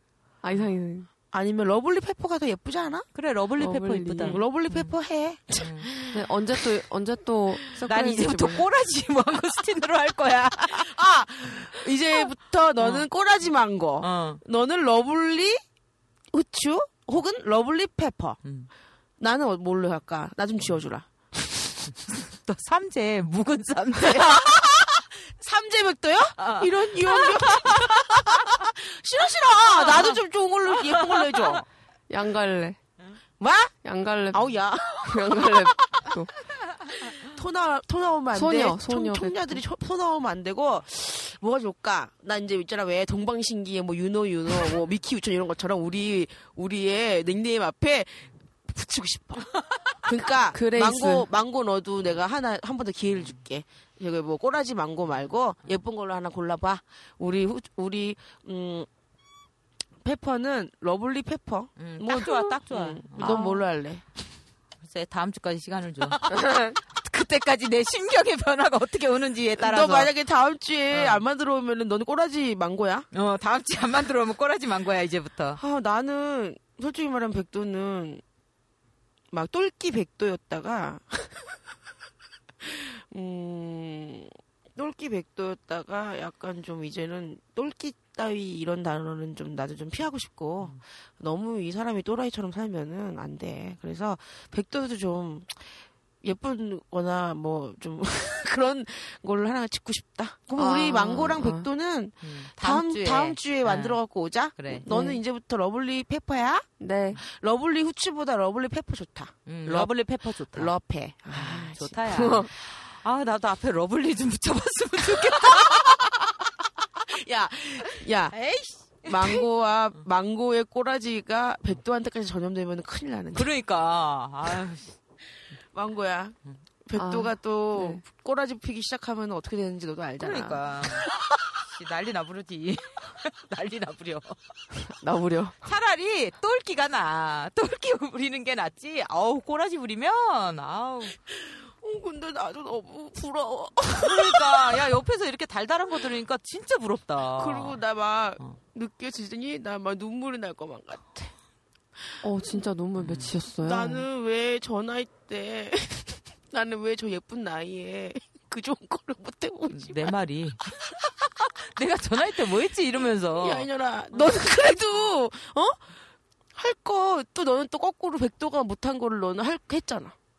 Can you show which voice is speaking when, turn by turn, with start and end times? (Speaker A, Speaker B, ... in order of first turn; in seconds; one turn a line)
Speaker A: 0.4-1.1
Speaker B: 1.3-3.1
Speaker C: 3.1-4.9
Speaker A: 3.6-4.4
Speaker B: 4.2-6.7
Speaker C: 5.6-5.9
Speaker A: 6.1-8.7
Speaker C: 7.8-10.9
Speaker B: 10.8-15.6
Speaker C: 12.8-13.1
Speaker C: 14.0-14.4
Speaker B: 16.3-18.4
Speaker C: 18.4-18.7
Speaker B: 19.2-22.0
Speaker C: 22.3-24.5
Speaker B: 24.0-31.6
Speaker C: 26.4-28.6
Speaker C: 29.6-30.2
Speaker C: 31.0-31.6
Speaker A: 32.1-32.8
Speaker B: 33.4-33.7
Speaker A: 33.8-36.4
Speaker B: 34.3-36.1
Speaker B: 37.1-58.9
Speaker A: 38.3-39.6
Speaker A: 50.0-51.3
Speaker B: 60.0-64.3
Speaker C: 61.8-63.6
Speaker C: 64.8-70.1
Speaker B: 69.6-73.1
Speaker C: 70.9-71.2
Speaker C: 73.1-75.6
Speaker B: 75.6-78.2
Speaker B: 79.3-81.5
Speaker B: 82.6-109.9
Speaker A: 100.6-101.7
Speaker C: 102.2-104.0
Speaker C: 104.5-104.8
Speaker A: 104.9-105.2
Speaker A: 106.8-107.2
Speaker C: 109.5-110.7
Speaker B: 110.5-112.2
Speaker C: 111.3-115.9
Speaker A: 112.1-112.5
Speaker B: 115.6-116.1
Speaker B: 117.1-118.4
Speaker C: 118.3-119.5
Speaker B: 119.0-123.5
Speaker C: 123.3-125.0
Speaker B: 125.7-130.8
Speaker A: 127.0-128.0
Speaker C: 130.2-134.4
Speaker B: 135.0-135.6
Speaker C: 135.6-141.2
Speaker B: 141.3-144.8
Speaker C: 144.0-147.8
Speaker B: 147.3-151.3
Speaker B: 152.0-152.2
Speaker A: 152.2-154.1
Speaker C: 153.0-153.3
Speaker B: 153.6-160.1
Speaker C: 159.7-160.6
Speaker C: 161.6-164.5
Speaker B: 163.4-165.9
Speaker B: 166.5-170.2